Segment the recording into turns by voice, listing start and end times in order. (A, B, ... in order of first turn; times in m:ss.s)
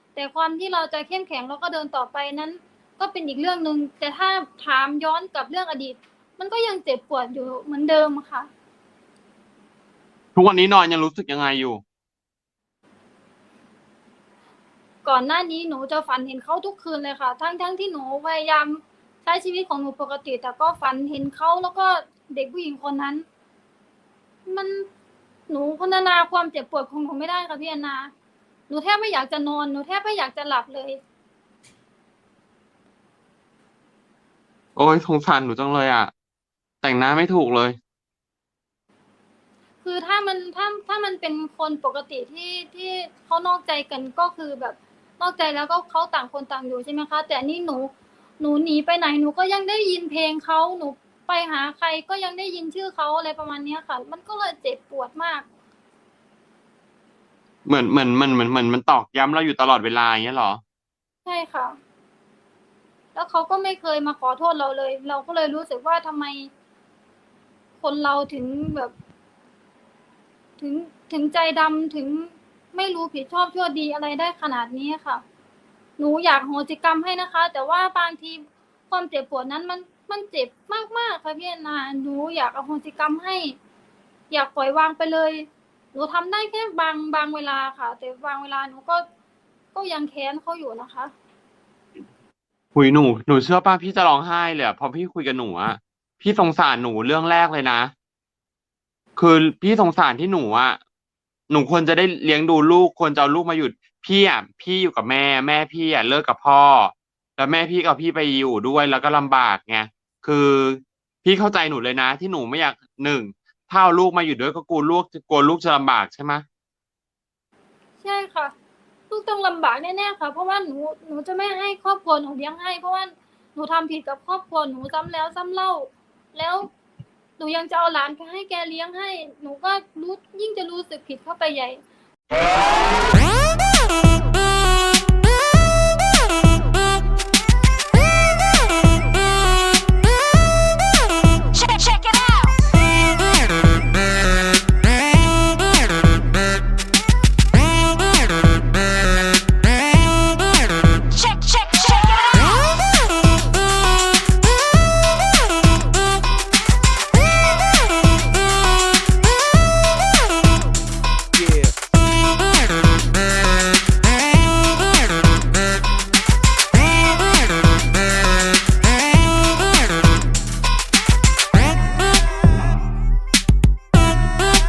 0:00.1-0:08.5 A
0:10.3-0:11.8 B
0:15.0-0:23.2 A
0:24.4-0:24.9 A
0:25.5-0:28.1 A
0:28.7-0:31.0 A
0:34.8-0:36.1 B
0:36.8-0:37.8 B
0:39.8-0:55.4 A
0:57.6-1:00.6 B
1:01.2-1:01.8 A
1:03.1-1:06.5 A
1:07.8-1:08.9 A
1:10.6-1:15.2 A
1:16.0-1:23.6 A
1:24.3-1:29.0 A
1:29.7-1:31.1 A
1:32.7-1:37.9 B
1:39.2-1:40.8 B
1:41.5-1:56.4 B
1:58.0-1:58.5 A
1:59.1-2:06.7 A
2:07.4-2:11.8 A